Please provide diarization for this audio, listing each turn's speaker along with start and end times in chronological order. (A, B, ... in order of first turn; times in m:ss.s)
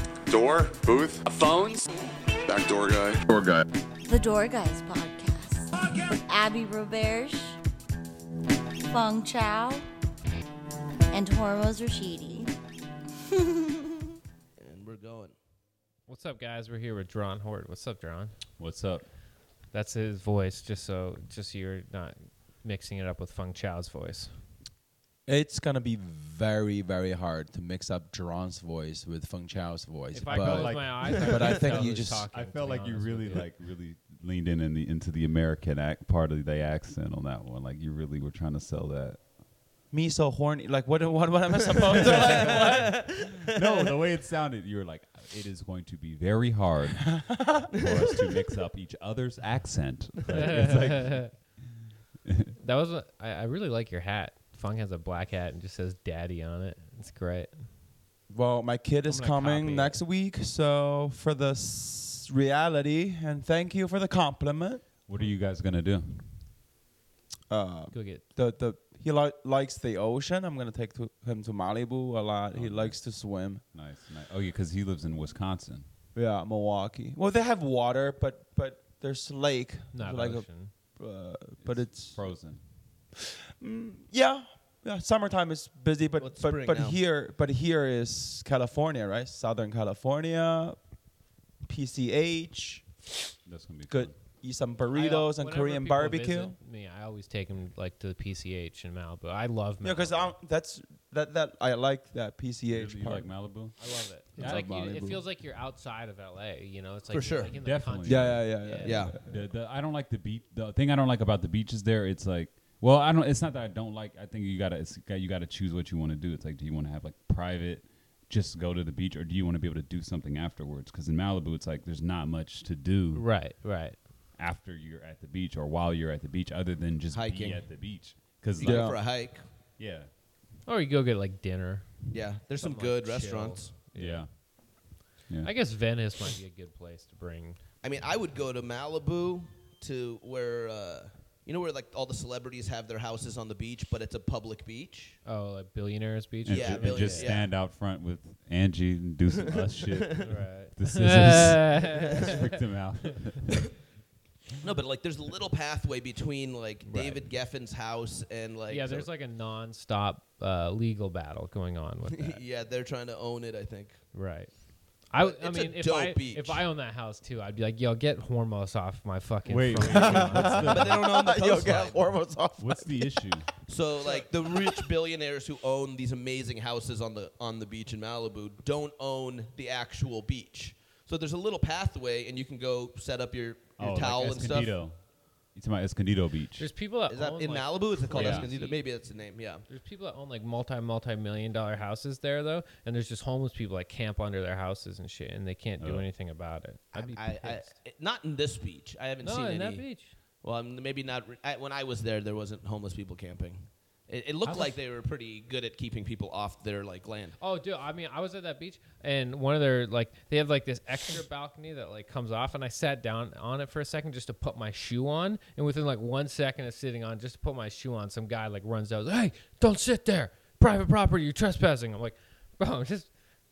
0:00.3-0:01.8 A
0:02.5-0:03.6 A
0:04.0-0:07.6 B
0:08.8-0:09.9 B
0:11.1-0:12.5 B
0:13.4-0:13.8 B
0:14.6-0:15.3 C
0:16.1-0:18.3 D
0:18.6-0:19.0 E
0:19.7-0:24.3 D
0:25.2-0:32.3 F
0:30.1-0:33.5 D
0:30.3-0:39.2 E
0:39.9-0:43.0 F
0:41.8-0:43.9 C
0:42.0-0:51.5 E
0:47.1-0:47.7 F
0:50.3-0:51.3 D
0:52.2-0:52.5 E
0:52.6-0:57.5 D
0:58.3-1:04.8 F
0:59.0-1:00.0 D
1:05.0-1:06.3 E
1:07.5-1:13.6 F
1:07.9-1:08.2 D
1:12.5-1:13.0 E
1:13.7-1:15.9 E
1:16.1-1:22.2 F
1:19.9-1:20.7 D
1:21.6-1:22.6 E
1:23.6-1:30.9 F
1:26.2-1:27.0 C
1:31.6-1:32.8 F
1:33.4-1:34.2 E
1:33.9-1:36.6 F
1:34.9-1:40.3 D
1:39.8-1:43.3 F
1:42.7-1:43.8 E
1:43.8-1:49.1 D
1:44.3-1:45.2 F
1:44.4-1:44.7 E
1:47.1-1:47.6 C
1:47.5-1:48.5 E
1:48.0-1:49.2 F
1:48.8-1:49.1 C
1:49.2-2:03.2 E
2:03.1-2:04.0 D
2:04.4-2:09.0 E
2:07.1-2:07.6 C
2:08.6-2:09.4 C
2:08.6-2:09.0 F
2:09.8-2:10.1 E
2:10.6-2:14.2 D
2:12.1-2:13.7 C
2:14.0-2:14.4 E
2:15.4-2:17.6 D
2:17.8-2:25.2 C
2:25.2-2:27.3 D
2:26.4-2:33.7 E
2:26.5-2:27.5 C
2:29.4-2:30.3 C
2:30.2-2:32.6 D
2:34.6-2:39.1 C
2:36.8-2:37.3 D
2:38.7-2:42.4 D
2:42.1-2:44.0 C
2:44.1-2:50.8 D
2:45.2-2:46.6 C
2:49.5-2:51.0 E
2:49.8-2:53.2 F
2:50.7-2:52.1 C
2:52.6-2:53.5 E
2:53.7-3:04.8 C
3:03.8-3:06.7 E
3:06.6-3:08.8 D
3:07.1-3:09.6 C
3:08.1-3:08.5 E
3:09.7-3:17.7 D
3:15.8-3:16.0 E
3:16.9-3:19.8 C
3:19.2-3:20.2 D
3:20.4-3:27.4 C
3:24.4-3:24.7 E
3:27.4-3:43.1 D